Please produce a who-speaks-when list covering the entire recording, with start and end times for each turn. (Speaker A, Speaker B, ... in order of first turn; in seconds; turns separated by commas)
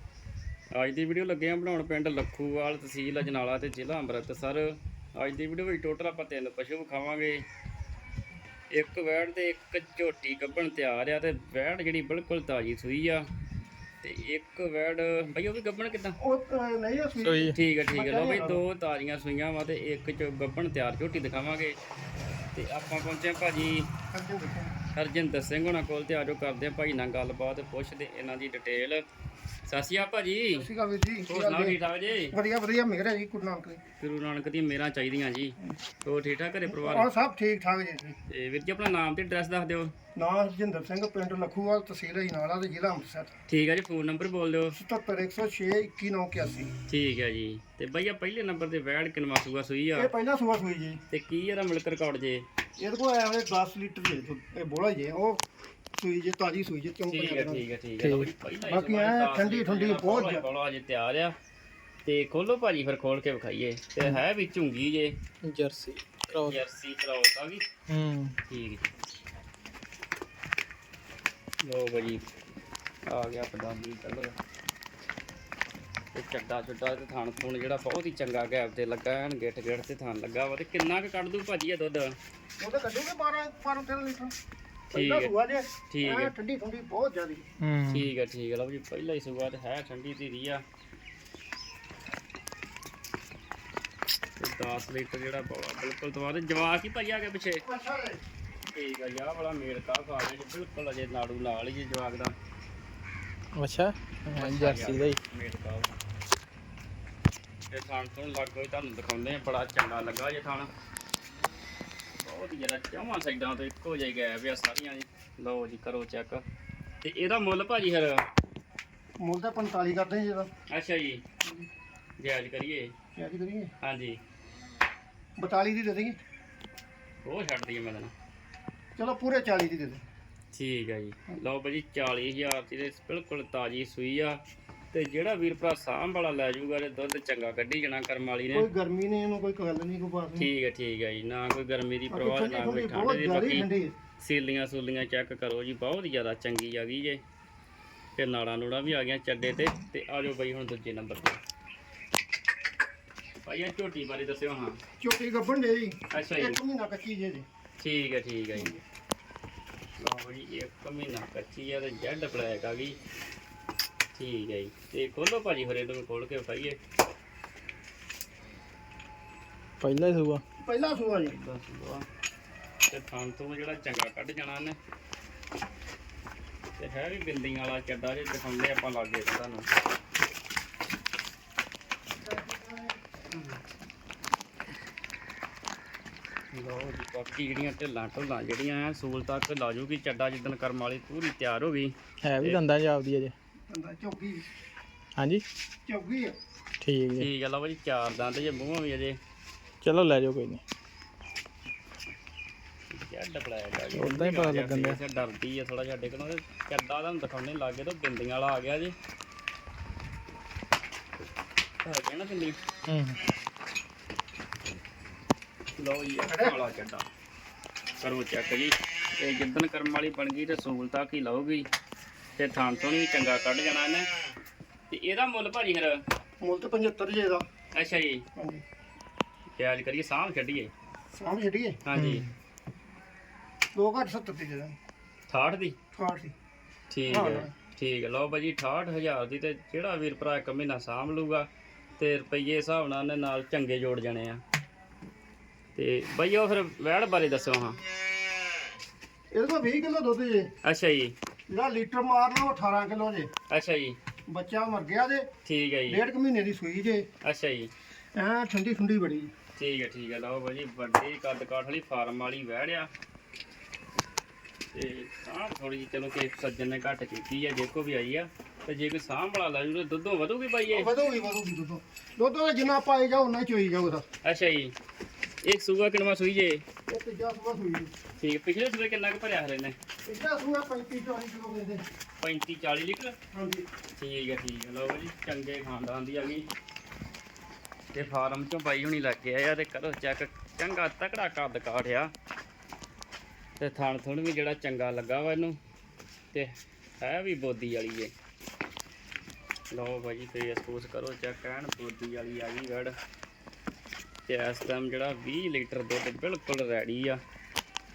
Speaker A: 0.7-7.4, Speaker A: 8.7-13.2, Speaker A: 14.0-16.2, Speaker B: 16.2-18.6, Speaker C: 17.2-17.6, Speaker A: 17.5-21.8, Speaker A: 22.5-23.9, Speaker B: 24.1-24.8, Speaker A: 24.9-29.0, Speaker A: 29.7-30.7, Speaker B: 30.6-33.8, Speaker A: 31.3-32.3, Speaker A: 34.0-37.1, Speaker B: 36.7-38.1, Speaker A: 38.3-39.9, Speaker B: 40.1-43.3, Speaker A: 43.5-44.8, Speaker B: 44.7-46.7, Speaker A: 46.9-50.1, Speaker B: 49.9-51.0, Speaker A: 51.1-52.4, Speaker B: 52.8-55.4, Speaker B: 56.0-57.6, Speaker A: 57.1-61.3, Speaker C: 58.0-58.3, Speaker B: 58.6-60.4, Speaker A: 62.0-65.1, Speaker C: 65.4-66.6, Speaker A: 66.3-67.7, Speaker C: 67.9-68.3, Speaker A: 68.5-68.8, Speaker A: 71.6-72.2, Speaker A: 73.1-74.3, Speaker A: 76.1-82.1, Speaker B: 82.6-84.3, Speaker B: 84.9-87.5, Speaker A: 84.9-85.3, Speaker A: 85.9-86.3, Speaker C: 87.6-88.1, Speaker A: 87.9-90.6, Speaker A: 94.4-97.6, Speaker B: 97.7-98.2, Speaker A: 98.7-102.3, Speaker C: 103.5-105.2, Speaker A: 104.3-105.9, Speaker A: 107.7-110.7, Speaker A: 112.2-116.4, Speaker A: 117.0-118.2, Speaker B: 119.2-120.5, Speaker A: 120.7-121.2, Speaker A: 122.2-122.9, Speaker B: 123.2-123.7, Speaker A: 123.8-124.2, Speaker B: 125.4-126.2, Speaker A: 127.2-128.1, Speaker B: 128.9-130.0, Speaker A: 130.5-134.4, Speaker A: 134.9-138.7, Speaker B: 138.5-140.5, Speaker A: 140.4-143.7, Speaker B: 142.1-143.9, Speaker A: 144.2-147.2, Speaker A: 148.2-151.4, Speaker A: 153.4-154.8, Speaker B: 155.0-157.4, Speaker A: 156.1-156.6, Speaker A: 157.8-158.7, Speaker A: 160.0-163.0, Speaker A: 164.1-166.8, Speaker C: 169.8-170.4, Speaker B: 170.6-171.3, Speaker A: 171.3-172.1, Speaker A: 172.9-174.8, Speaker A: 176.8-179.7, Speaker B: 182.2-183.0, Speaker A: 183.3-183.6, Speaker A: 186.5-192.6, Speaker C: 192.2-193.3, Speaker B: 193.7-194.5, Speaker C: 195.2-195.4, Speaker B: 195.8-196.3, Speaker C: 196.8-197.3, Speaker A: 197.2-199.2, Speaker C: 199.8-200.6, Speaker A: 202.9-208.9, Speaker C: 203.9-205.0, Speaker A: 211.8-212.6, Speaker C: 212.9-213.2, Speaker A: 215.8-217.1, Speaker B: 216.3-216.5, Speaker A: 218.0-221.7, Speaker A: 222.4-224.1, Speaker A: 224.9-226.0, Speaker B: 226.4-227.4, Speaker A: 227.7-228.2, Speaker B: 228.3-228.6, Speaker A: 229.6-230.7, Speaker B: 231.2-231.8, Speaker A: 231.8-232.3, Speaker C: 231.9-232.3, Speaker B: 233.7-234.8, Speaker A: 235.3-235.8, Speaker B: 235.9-236.3, Speaker A: 236.9-241.5, Speaker B: 237.1-237.5, Speaker A: 242.0-244.4, Speaker A: 245.7-247.8, Speaker B: 249.3-250.5, Speaker A: 250.6-251.1, Speaker B: 251.5-253.3, Speaker A: 253.5-254.0, Speaker B: 254.3-255.3, Speaker A: 255.4-256.0, Speaker B: 255.9-257.1, Speaker A: 257.2-257.7, Speaker B: 258.1-259.3, Speaker A: 259.6-262.9, Speaker A: 264.7-270.9, Speaker B: 270.7-274.1, Speaker A: 274.2-274.7, Speaker A: 275.4-276.6, Speaker B: 276.9-277.9, Speaker A: 278.2-279.8, Speaker B: 280.1-281.8, Speaker A: 282.2-283.1, Speaker B: 283.3-283.7, Speaker A: 283.9-286.4, Speaker A: 287.9-292.1, Speaker A: 293.6-295.6, Speaker A: 296.3-298.1, Speaker A: 299.7-302.9, Speaker A: 304.2-307.2